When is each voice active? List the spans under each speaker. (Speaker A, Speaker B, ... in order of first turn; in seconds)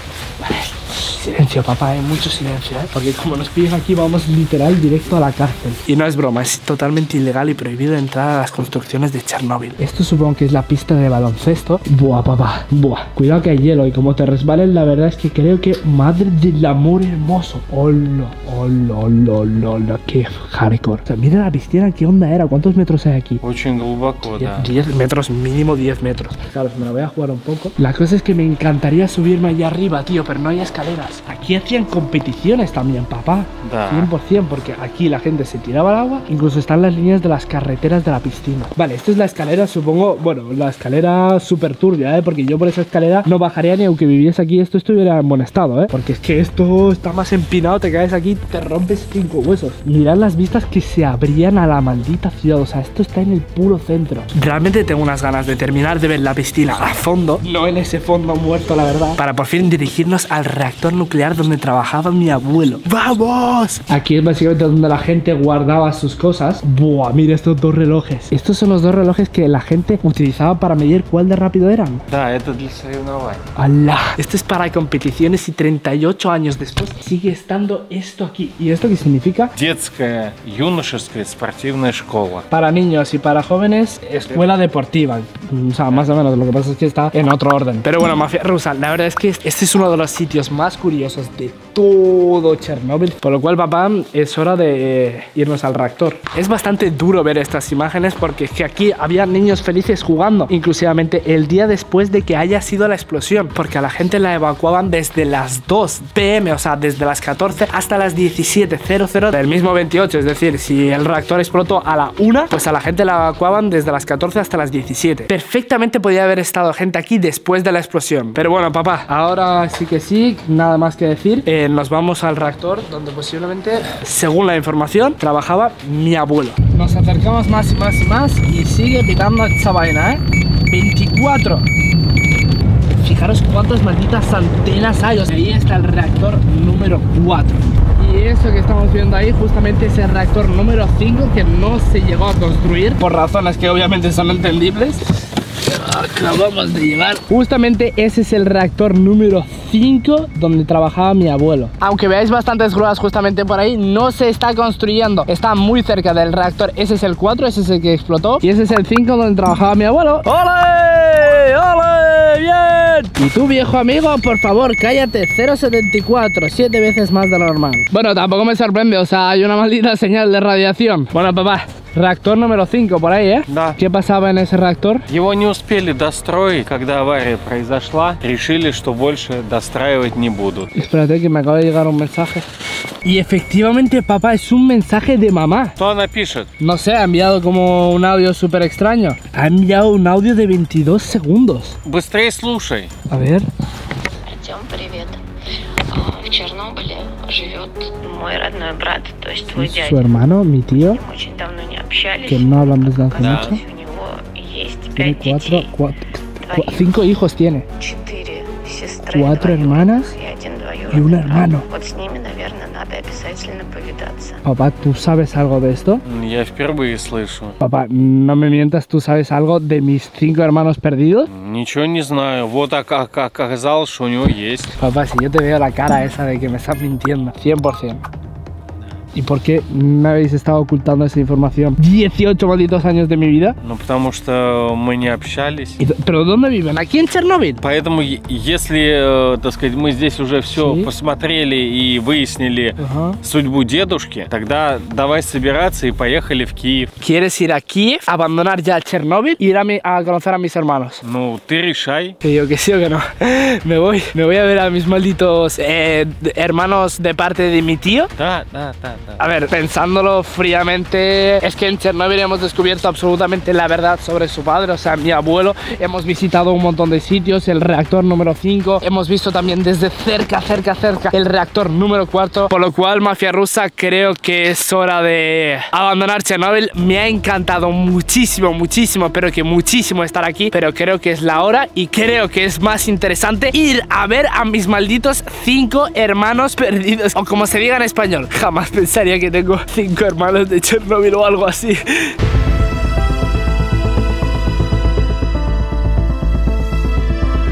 Speaker A: 0.4-23.4, 24.3-72.0, 73.5-79.5, 82.5-131.7, 133.0-175.0, 180.7-182.4, 183.0-185.7, 186.6-191.8, 193.1-193.5, 199.5-201.0, 202.2-203.6, 204.9-207.7, 209.1-210.1, 210.9-211.7, 214.4-216.0, 217.6-221.3, 224.8-228.0, 229.1-233.6, 235.8-237.6, 240.6-240.9, 242.8-243.2, 247.0-251.0, 252.2-258.1, 259.2-292.1
Speaker B: 23.4-24.7, 33.6-34.1, 72.1-73.4, 79.5-82.5, 173.5-173.8, 175.1-180.7, 185.8-186.5, 191.8-192.9, 203.2-203.6, 216.0-217.6, 221.3-224.7, 233.6-235.8, 237.6-246.9, 251.0-252.2, 258.2-259.2
Speaker C: 194.3-195.2, 195.9-200.2, 200.8-205.7, 206.4-207.0, 207.8-214.4